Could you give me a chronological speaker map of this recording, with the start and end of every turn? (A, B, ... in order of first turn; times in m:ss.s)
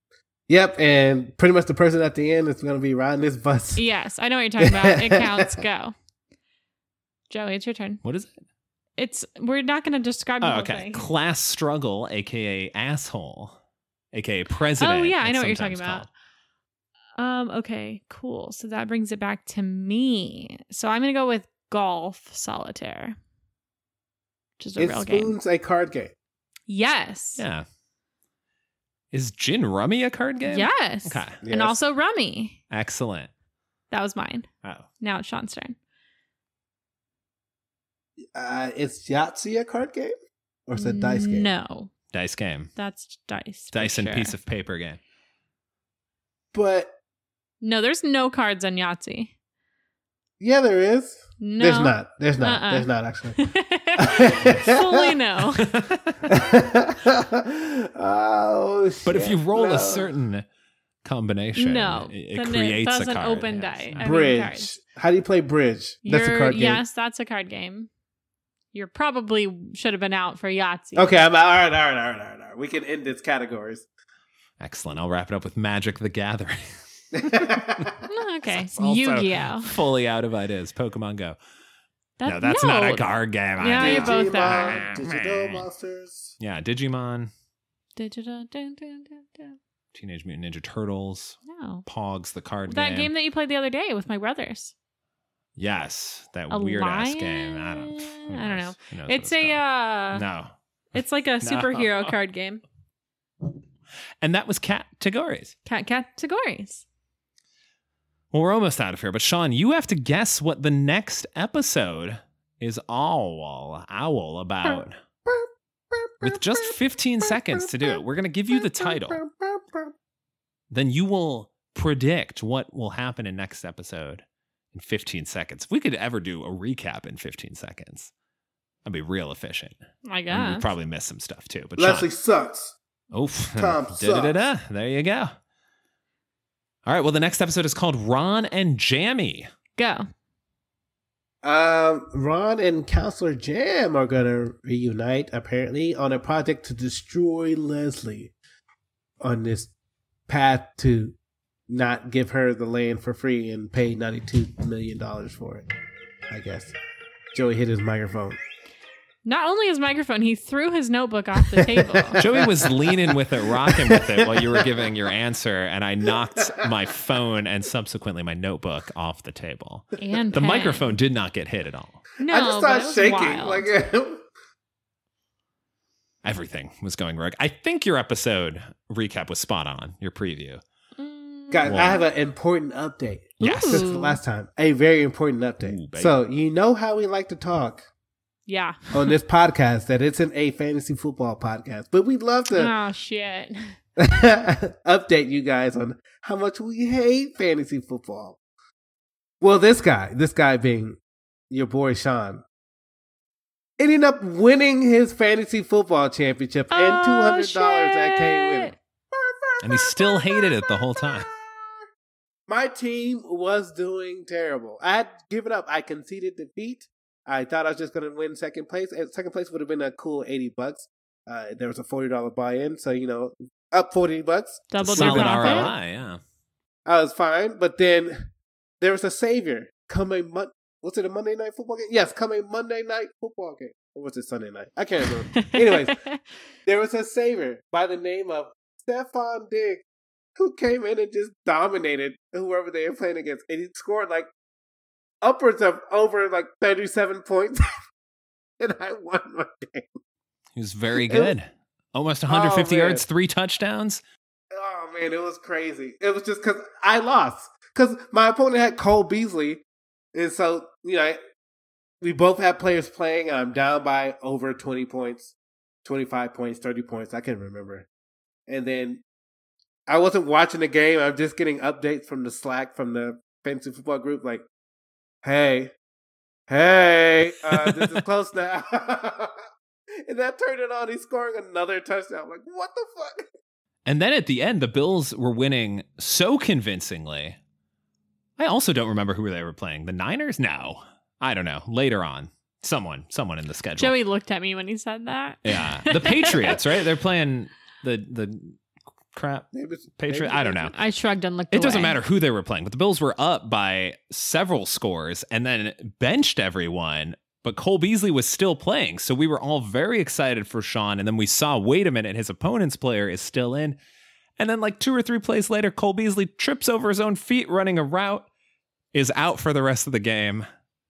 0:00.5-0:03.8 A
0:03.8-0:05.9 B
0:04.6-0:05.6 A
0:07.3-0:08.0 B
0:08.0-0:08.3 C
0:09.0-0:11.0 B
0:10.4-0:13.6 C
0:14.1-0:16.1 C
0:14.8-0:16.1 B
0:17.2-0:23.2 B
0:24.6-0:25.3 B
0:24.8-0:26.1 A
0:26.7-0:27.4 B
0:27.4-0:27.6 C
0:29.1-0:31.4 C
0:30.5-0:32.6 B
0:31.4-0:31.8 A
0:32.7-0:33.3 C
0:33.9-0:34.5 B
0:35.0-0:35.8 B
0:38.3-0:40.1 A
0:40.7-0:41.5 A
0:40.8-0:41.9 B
0:42.1-0:42.7 C
0:42.8-0:44.3 B
0:43.7-0:45.0 C
0:46.5-0:46.9 A
0:47.6-0:49.3 B
0:50.4-0:53.4 A
0:51.4-0:55.7 B
0:54.0-0:55.0 A
0:55.6-0:56.3 C
0:56.3-1:00.1 A
0:59.0-1:00.4 C
1:01.0-1:04.0 C
1:01.6-1:04.7 B
1:04.0-1:06.8 A
1:06.0-1:07.9 B
1:08.7-1:11.2 B
1:10.9-1:13.9 A
1:14.6-1:17.9 C
1:17.1-1:18.0 A
1:18.0-1:19.8 B
1:18.4-1:21.4 C
1:22.2-1:24.8 B
1:22.2-1:25.6 C
1:23.8-1:26.4 A
1:26.4-1:27.3 C
1:28.0-1:29.6 B
1:29.9-1:33.1 C
1:31.4-1:31.8 B
1:32.7-1:34.7 B
1:35.6-1:39.6 C
1:36.5-1:40.2 B
1:40.1-1:40.5 C
1:40.9-1:42.6 B
1:41.4-1:42.1 C
1:44.2-1:45.5 C
1:45.6-1:46.8 B
1:48.3-1:55.0 C
1:54.6-1:58.0 A
1:56.2-1:59.2 C
1:58.5-1:59.9 A
2:00.7-2:08.1 C
2:08.8-2:09.7 C
2:10.0-2:10.6 B
2:10.3-2:12.1 C
2:11.8-2:12.8 A
2:13.1-2:15.3 C
2:13.6-2:14.4 A
2:16.8-2:19.5 C
2:19.8-2:20.1 B
2:21.4-2:28.3 A
2:29.2-2:29.7 A
2:30.3-2:31.1 A
2:31.7-2:35.6 A
2:36.3-2:36.7 A
2:37.3-2:38.4 A
2:39.2-2:42.2 B
2:41.7-2:43.1 A
2:42.2-2:52.0 C
2:43.7-2:44.6 A
2:46.4-2:46.7 A
2:50.0-2:50.9 B
2:52.2-2:53.7 B
2:52.3-2:54.2 A
2:56.2-3:00.6 C
3:01.0-3:01.9 B
3:01.5-3:07.8 A
3:01.6-3:02.0 C
3:03.4-3:03.8 C
3:03.4-3:04.2 B
3:05.6-3:06.2 C
3:08.5-3:09.1 B
3:08.9-3:12.7 A
3:12.5-3:13.7 B
3:14.0-3:18.4 A
3:19.4-3:21.0 A
3:21.5-3:22.4 A
3:23.8-3:31.8 A
3:26.7-3:28.7 B
3:29.6-3:31.3 C
3:32.5-3:45.8 A
3:44.7-3:45.7 B
3:44.8-3:46.2 C
3:46.8-3:48.2 A
3:48.8-3:56.0 A
3:55.4-3:56.2 B
3:56.6-3:59.8 A
4:00.4-4:04.3 A
4:05.2-4:07.7 A
4:08.6-4:10.0 A
4:10.5-4:14.0 C
4:11.0-4:11.3 A
4:12.3-4:13.0 A
4:14.5-4:19.6 A
4:20.1-4:21.2 A
4:22.0-4:27.9 A
4:28.5-4:29.0 A
4:29.9-4:34.4 A
4:35.2-4:35.7 A
4:36.5-4:39.4 A
4:37.5-4:38.0 C
4:40.0-4:43.3 A
4:43.8-4:47.4 C
4:48.4-4:53.9 C
4:53.8-4:56.8 B
4:55.4-4:58.6 C
4:59.1-5:00.7 C
4:59.5-5:00.8 A
5:00.7-5:02.0 B
5:01.5-5:13.8 C
5:14.4-5:18.3 C
5:18.9-5:20.5 C